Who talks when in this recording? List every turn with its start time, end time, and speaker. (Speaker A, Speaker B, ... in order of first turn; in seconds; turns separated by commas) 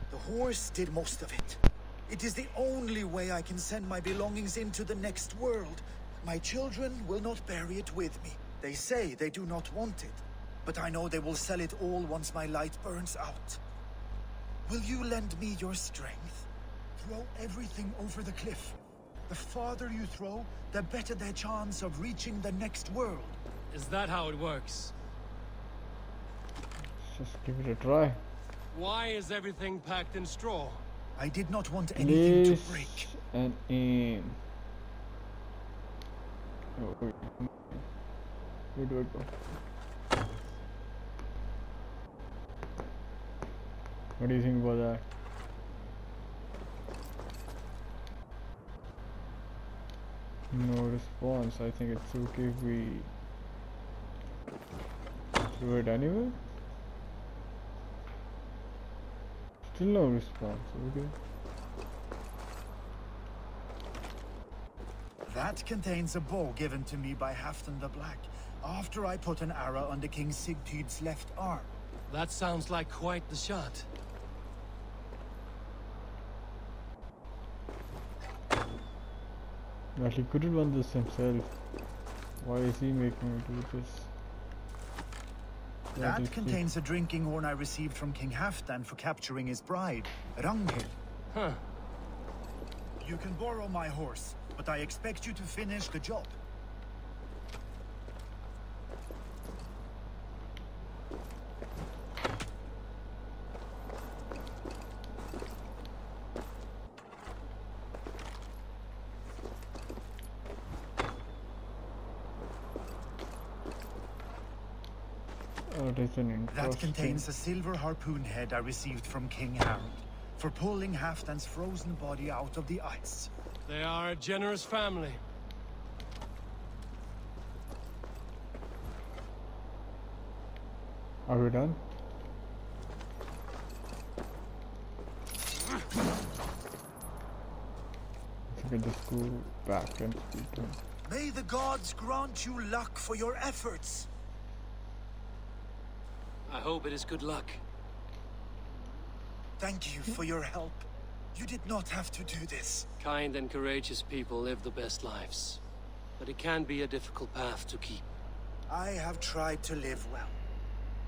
Speaker A: 0.1-13.6, Speaker A: 14.6-18.8, Speaker A: 19.3-23.4, Speaker B: 23.7-24.9, Speaker C: 27.0-28.2, Speaker B: 28.7-30.8, Speaker A: 31.2-33.1, Speaker C: 32.0-34.4, Speaker C: 36.8-37.9, Speaker C: 38.7-39.3, Speaker C: 44.2-45.0, Speaker C: 50.5-53.1, Speaker C: 55.5-56.4, Speaker C: 59.7-61.1, Speaker A: 65.2-71.7, Speaker B: 72.1-73.9, Speaker C: 80.0-81.6, Speaker C: 82.4-84.1, Speaker C: 85.9-86.7, Speaker A: 85.9-91.0, Speaker B: 91.3-91.6, Speaker A: 93.0-96.3, Speaker C: 115.7-117.3, Speaker A: 116.5-123.3, Speaker B: 123.7-125.2, Speaker C: 131.3-131.8, Speaker C: 138.5-140.8, Speaker A: 141.0-144.1, Speaker B: 146.5-147.6, Speaker A: 149.6-152.9, Speaker B: 153.0-155.6, Speaker B: 156.2-158.0, Speaker A: 158.7-160.4